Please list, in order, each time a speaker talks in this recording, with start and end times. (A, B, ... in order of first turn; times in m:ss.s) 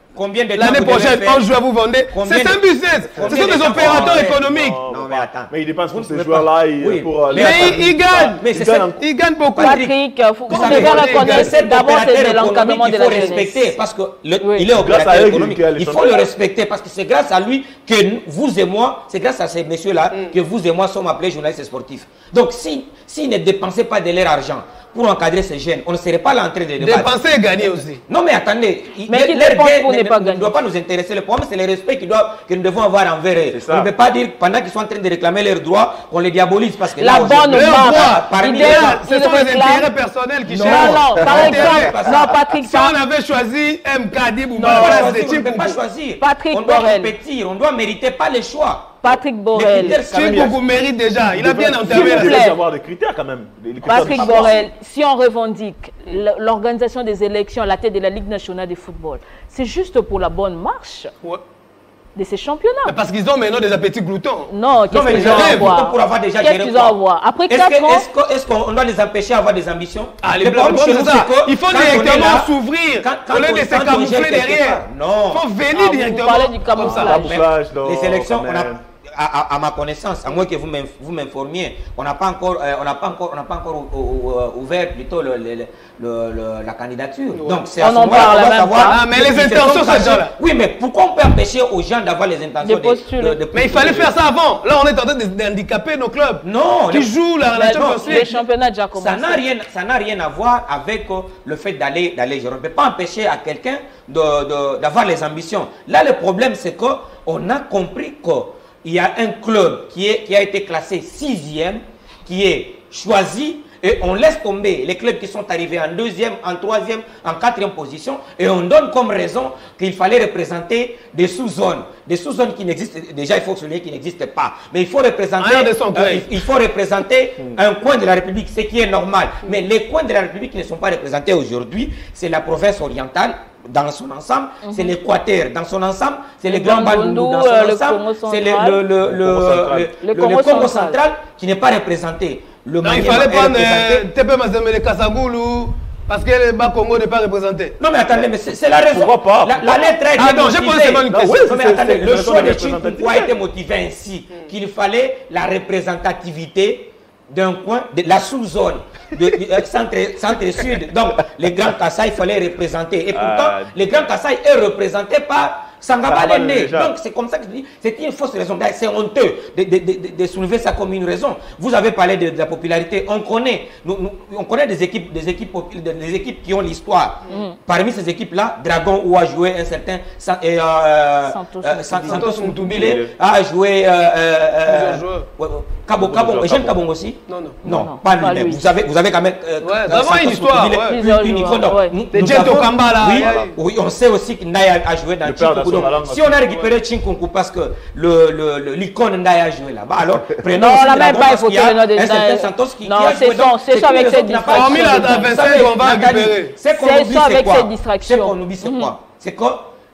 0:00.1-0:01.5 A
0:00.6-0:04.8 B
0:02.1-0:08.9 A
0:03.2-0:09.0 C
0:07.3-0:08.4 B
0:09.0-0:09.8 B
0:09.5-0:09.9 A
0:09.6-0:13.7 D
0:10.5-0:11.5 B
0:10.5-0:39.0 A
0:14.4-0:14.7 D
0:14.7-0:16.3 C
0:26.8-0:28.0 B
0:29.1-0:30.6 D
0:33.5-0:33.9 C
0:37.0-0:39.9 D
0:37.4-0:45.8 B
0:40.5-0:42.3 C
0:40.5-0:42.3 A
0:40.6-0:43.0 D
0:44.6-0:50.6 A
0:44.6-0:45.0 D
0:46.2-0:47.1 D
0:49.0-0:50.0 D
0:50.1-0:52.5 B
0:50.2-0:50.5 C
0:51.2-0:54.5 C
0:51.9-0:52.6 D
0:53.8-1:01.1 D
0:53.9-0:54.6 A
1:02.2-1:02.9 D
1:02.8-1:04.5 B
1:04.5-1:08.0 D
1:04.9-1:07.0 A
1:05.1-1:05.7 B
1:07.5-1:15.4 A
1:10.2-1:17.2 B
1:15.7-1:17.3 D
1:16.8-1:18.8 C
1:17.2-1:34.1 A
1:27.3-1:27.7 B
1:27.8-1:29.0 D
1:28.8-1:30.3 B
1:32.6-1:33.4 D
1:33.5-1:38.3 B
1:36.4-1:37.1 A
1:37.5-1:39.4 D
1:38.0-1:38.3 A
1:38.9-2:24.1 A
2:05.4-2:06.3 B
2:14.6-2:14.9 D
2:16.5-2:18.8 D
2:19.0-2:19.9 C
2:20.0-2:21.0 D
2:22.8-2:27.7 B
2:27.8-3:29.7 A
2:28.1-2:29.9 C
2:30.2-2:31.4 B
2:31.1-2:33.3 C
2:43.1-2:44.1 C
2:46.0-2:46.9 C
2:57.3-2:57.5 D
3:01.3-3:02.4 D
3:02.1-3:03.0 B
3:02.6-3:03.1 C
3:04.6-3:05.3 B
3:05.9-3:06.8 C
3:07.3-3:07.6 B
3:07.6-3:08.6 D
3:09.6-3:11.0 B
3:10.9-3:12.0 D
3:12.1-3:13.6 B
3:13.1-3:13.5 C
3:15.2-3:16.6 C
3:20.5-3:25.3 D
3:24.5-3:26.5 B
3:26.7-3:28.9 D